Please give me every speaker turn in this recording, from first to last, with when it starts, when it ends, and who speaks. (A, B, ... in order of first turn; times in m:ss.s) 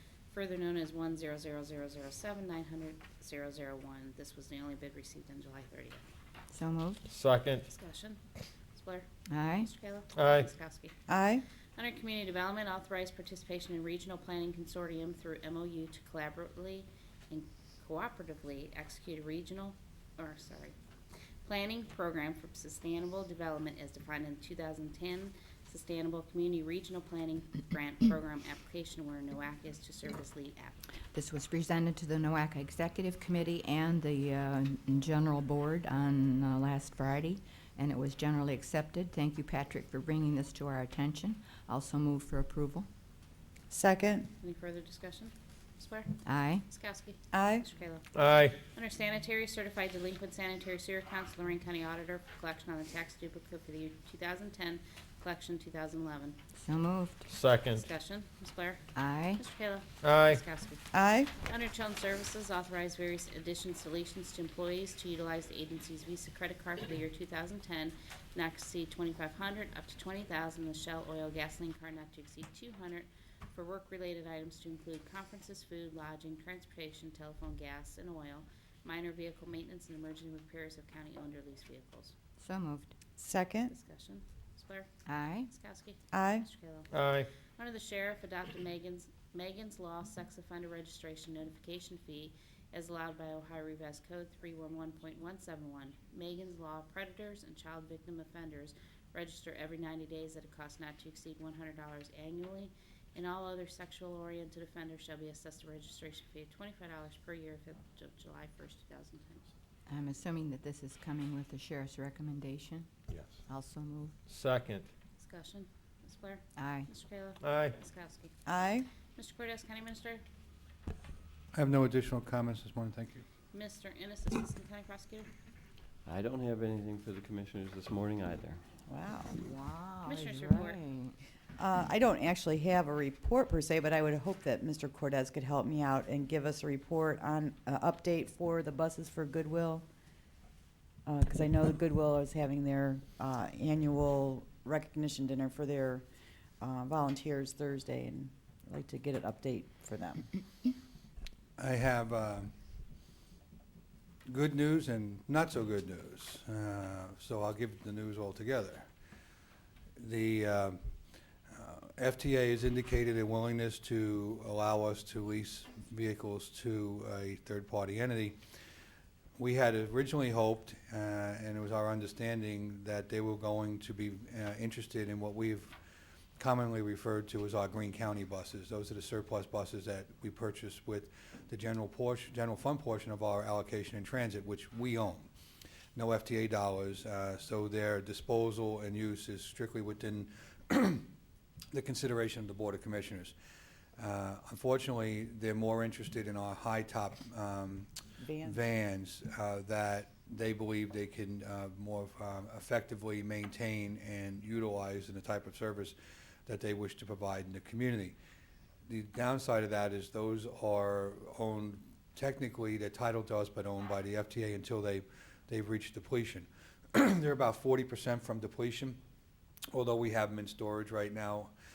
0:00.3-0:06.0 A
0:06.5-0:07.0 B
0:07.1-0:07.6 C
0:07.7-0:08.2 A
0:08.7-0:10.9 A
0:09.3-0:09.7 B
0:10.2-0:10.5 C
0:11.1-0:11.4 D
0:11.8-0:20.7 A
0:21.4-0:30.8 A
0:31.1-0:42.9 B
0:43.7-0:44.3 D
0:44.4-0:56.4 A
0:46.2-0:46.6 B
0:47.3-0:47.7 D
0:48.1-0:48.6 C
0:56.6-0:57.2 B
0:57.3-0:57.8 C
0:57.7-1:22.2 A
0:58.9-0:59.4 B
1:00.0-1:00.4 C
1:00.9-1:01.3 D
1:22.4-1:22.9 B
1:23.2-1:23.7 D
1:23.7-1:26.9 A
1:25.1-1:25.5 B
1:26.1-1:26.5 D
1:26.9-1:27.3 C
1:27.6-1:49.5 A
1:49.9-1:52.9 B
1:53.5-1:54.1 B
1:54.3-1:54.9 C
1:55.2-1:58.4 A
1:56.6-1:56.9 B
1:57.4-1:57.7 C
1:58.4-1:58.9 D
1:59.2-2:00.2 A
2:01.5-2:03.2 E
2:03.5-2:05.3 A
2:06.0-2:08.6 F
2:08.9-2:09.4 D
2:09.3-2:11.2 B
2:10.0-2:10.8 A
2:11.6-2:19.8 D
2:21.0-2:26.0 D
2:26.6-2:30.3 D
2:31.6-2:32.5 E
2:34.3-2:38.9 E
2:40.0-2:40.8 E
2:41.5-2:48.4 E
2:49.4-2:55.7 E
2:56.4-3:05.3 E
3:05.9-3:11.1 E
3:11.7-3:13.3 E
3:14.0-3:28.2 E
3:18.2-3:18.6 D
3:28.9-3:39.0 E
3:39.7-3:41.5 E